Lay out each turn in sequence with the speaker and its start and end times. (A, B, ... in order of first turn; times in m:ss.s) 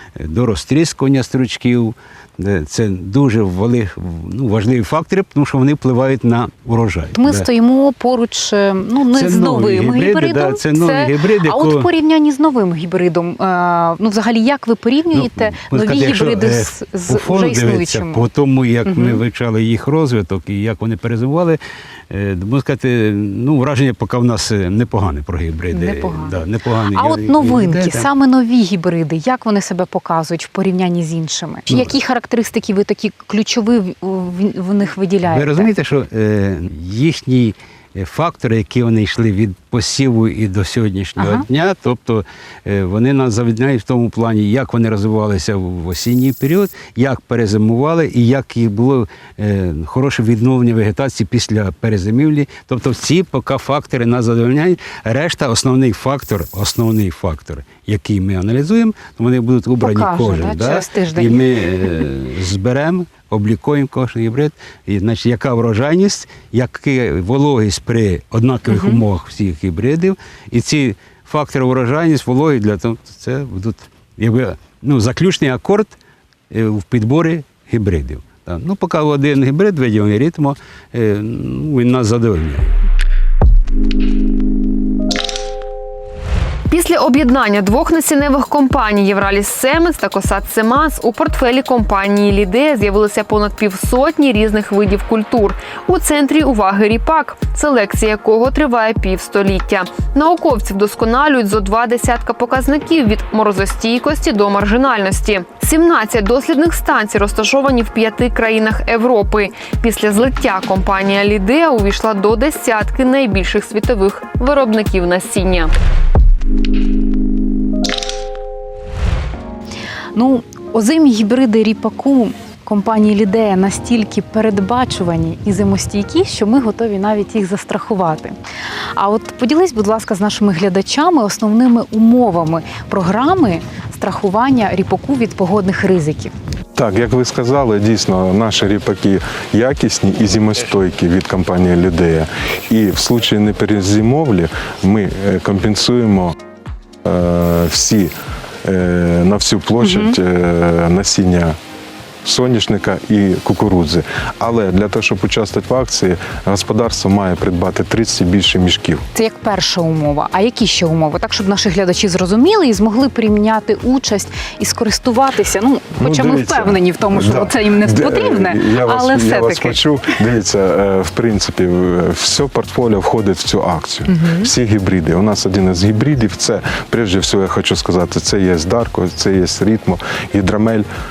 0:00.2-0:07.4 A
0:07.1-0:18.2 B
0:09.1-0:11.9 A
0:15.1-0:28.1 A
0:18.8-0:19.2 B
0:25.7-0:26.4 B
0:26.9-0:35.7 B
0:31.7-0:31.9 A
0:35.2-1:16.0 A
0:41.2-0:41.4 B
0:59.8-1:02.0 B
1:08.7-1:09.0 B
1:16.5-1:22.8 A
1:26.7-1:55.7 C
2:00.1-2:08.3 B
2:09.0-2:16.3 B
2:16.8-2:26.4 D
2:27.0-2:28.1 D
2:28.6-2:31.5 D
2:29.8-2:30.2 B
2:32.2-2:39.0 D
2:39.1-2:49.8 B
2:46.0-3:00.9 D
2:54.1-2:54.5 B